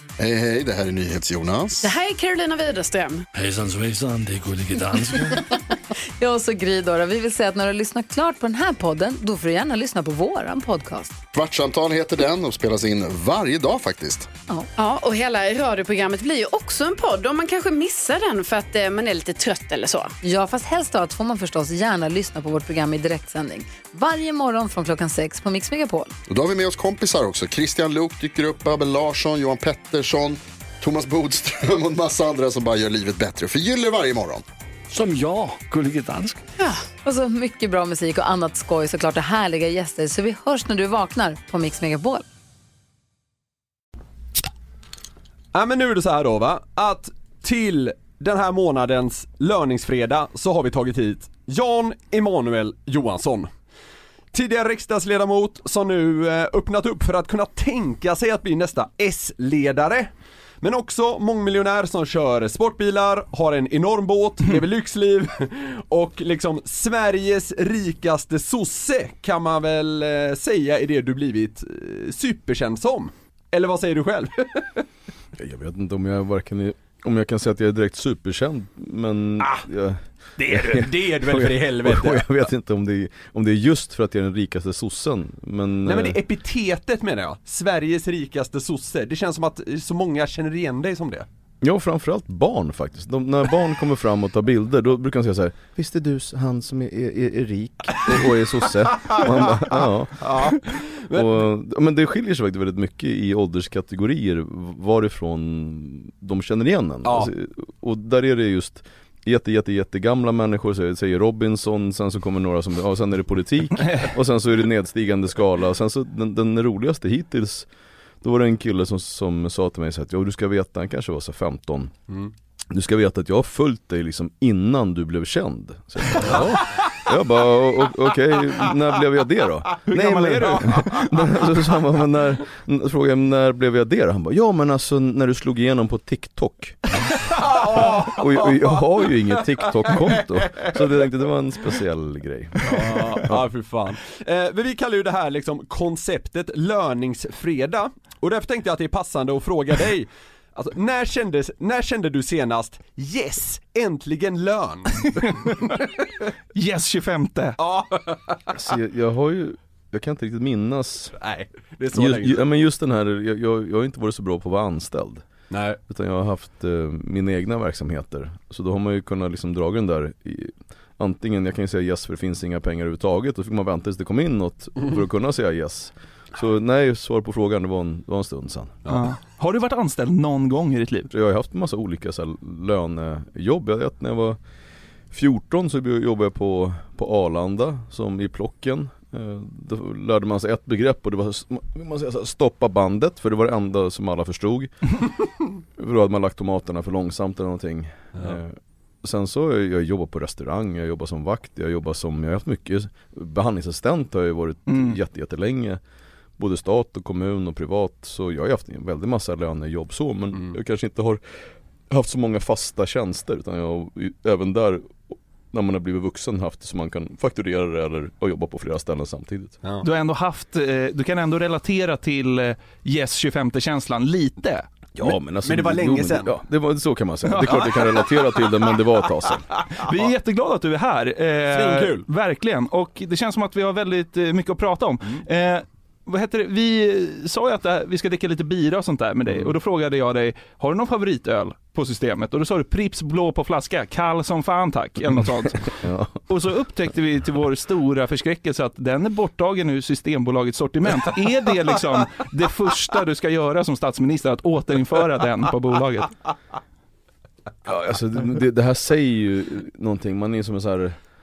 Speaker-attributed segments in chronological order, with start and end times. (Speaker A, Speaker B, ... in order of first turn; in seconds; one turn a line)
Speaker A: 0.2-1.9
Speaker B: 1.8-3.2
Speaker C: 3.3-5.3
Speaker D: 6.2-11.1
Speaker A: 11.3-14.3
Speaker B: 14.8-20.1
Speaker D: 20.2-26.1
Speaker A: 26.3-34.4
Speaker C: 34.9-36.4
Speaker D: 36.6-42.2
Speaker E: 45.5-53.5
Speaker E: 54.3-74.8
Speaker F: 75.3-86.2
Speaker E: 80.7-82.2
Speaker E: 85.8-91.3
Speaker F: 91.6-100.3
Speaker E: 99.0-99.7
Speaker E: 100.2-101.4
Speaker F: 101.1-117.7
Speaker E: 107.0-107.3
Speaker F: 118.2-121.9
Speaker F: 122.7-136.8
Speaker E: 126.2-126.6
Speaker G: 129.9-131.1
Speaker E: 137.2-140.8
Speaker F: 138.2-143.4
Speaker E: 142.7-155.9
Speaker G: 155.0-155.7
Speaker G: 156.5-157.6
Speaker E: 157.6-158.6
Speaker F: 158.5-161.1
Speaker E: 161.2-162.4
Speaker F: 161.9-165.2
Speaker E: 165.5-165.8
Speaker F: 165.9-178.8
Speaker G: 178.9-181.1
Speaker F: 181.1-184.4
Speaker F: 185.1-194.9
Speaker F: 195.8-205.8
Speaker G: 204.7-204.9
Speaker F: 206.4-219.6
Speaker G: 219.8-224.7
Speaker F: 225.0-229.4
Speaker E: 225.4-226.3
Speaker G: 227.3-227.6
Speaker E: 227.4-228.0
Speaker G: 229.8-245.8
Speaker E: 231.5-232.1
Speaker F: 245.8-246.2
Speaker G: 246.3-256.1
Speaker F: 257.6-261.0